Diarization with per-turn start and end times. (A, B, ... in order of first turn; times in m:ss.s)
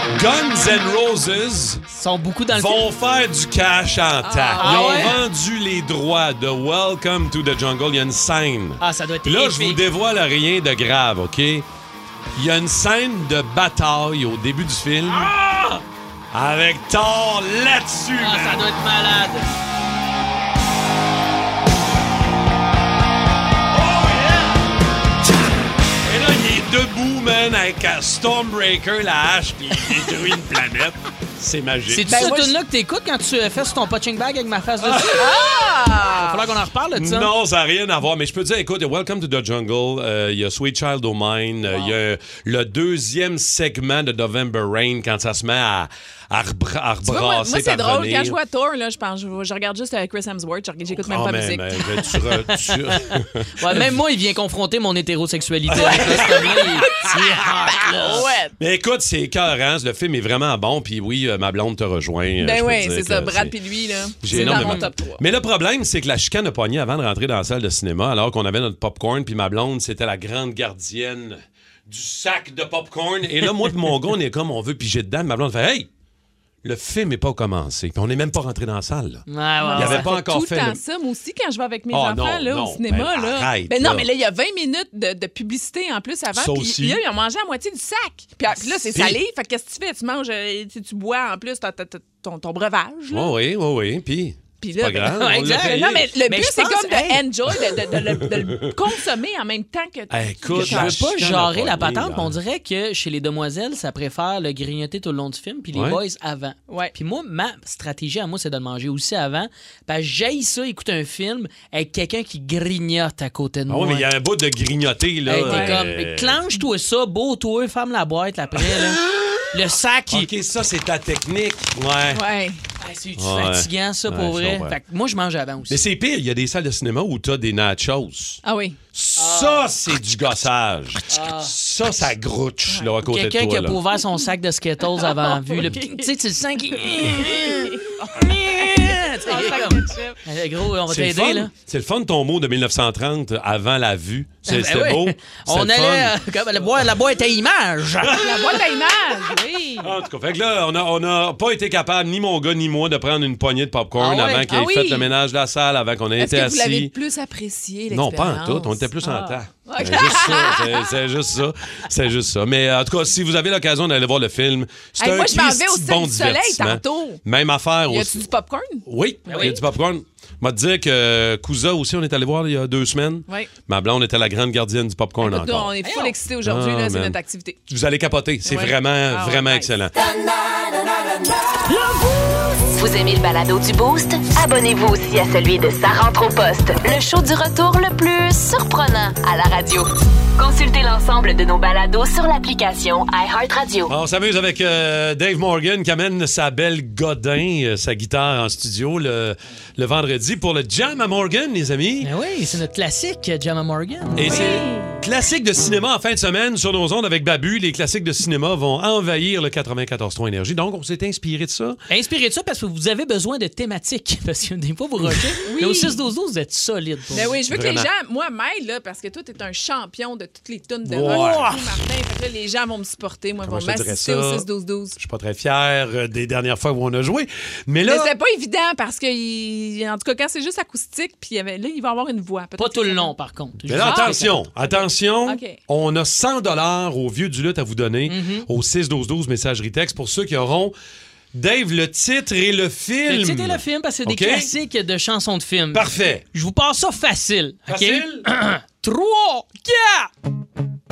0:00.1-0:01.8 A
0:01.9-0:02.9 B
0:02.5-0:11.6 A
0:04.2-0:05.2 C
0:04.6-0:05.2 B
0:08.8-0:09.8 B
0:12.4-0:15.3 A
0:15.1-0:15.8 B
0:16.3-0:18.6 A
0:18.2-0:19.5 B
0:24.0-0:24.6 B
0:26.0-0:32.1 A
0:31.9-0:35.3 B
0:32.1-0:32.6 C
0:34.9-0:35.4 A
0:35.1-0:36.5 C
0:36.2-0:37.3 B
0:37.0-0:48.4 A
0:41.6-0:42.0 B
0:47.1-0:52.1 C
0:50.9-0:53.8 A
0:53.6-0:58.3 B
0:55.7-0:57.2 A
0:55.8-0:57.1 C
0:57.9-0:58.5 C
0:58.0-1:03.5 A
1:02.4-1:05.2 C
1:04.2-1:15.9 A
1:04.3-1:04.9 B
1:16.6-1:20.8 A
1:19.3-1:20.1 B
1:19.6-1:33.3 C
1:21.9-1:24.1 A
1:26.3-1:27.0 A
1:28.9-1:29.2 A
1:33.1-1:36.1 A
1:34.6-1:41.0 C
1:35.2-1:37.2 B
1:38.4-1:38.7 A
1:40.1-1:42.4 A
1:40.5-1:54.1 B
1:45.7-1:46.0 A
1:53.7-1:56.4 A
1:55.2-1:59.0 B
1:55.4-1:55.9 C
1:59.5-2:00.3 B
2:00.1-2:02.2 A
2:02.1-2:02.6 C
2:02.8-2:05.8 B
2:03.2-2:04.8 A
2:05.7-2:08.4 A
2:08.4-2:08.8 C
2:08.9-2:13.8 A
2:09.2-2:09.7 B
2:11.1-2:11.5 B
2:13.1-2:21.5 B
2:15.0-2:16.0 C
2:17.4-2:20.1 C
2:20.9-2:26.1 A
2:24.5-2:28.3 B
2:28.1-2:28.6 A
2:28.2-2:29.9 C
2:29.8-2:36.9 A
2:34.0-2:34.5 B
2:34.4-2:35.1 C
2:36.2-2:40.9 C
2:37.9-2:48.3 A
2:45.0-2:47.2 C
2:47.9-2:49.6 C
2:48.9-2:55.7 A
2:49.3-2:49.6 B
2:55.2-2:57.6 C
2:55.8-2:56.1 B
2:56.4-2:57.2 A
2:57.7-3:00.0 A
2:58.4-2:59.6 C
3:02.8-3:13.9 D
3:13.9-3:22.1 A
3:22.0-3:24.2 B
3:24.2-3:31.8 A
3:24.2-3:25.0 C
3:31.9-3:37.3 B
3:35.5-3:36.0 C
3:37.1-3:45.0 C
3:37.2-3:37.9 A
3:40.8-3:41.8 A
3:41.0-3:41.6 B
3:43.4-3:48.1 A
3:47.8-3:53.1 C
3:52.6-3:54.4 B
3:53.7-4:00.7 A
3:53.8-3:55.6 C
3:58.1-3:58.5 B
4:01.3-4:04.5 A
4:03.1-4:10.1 B
4:05.7-4:06.2 A
4:07.7-4:08.3 A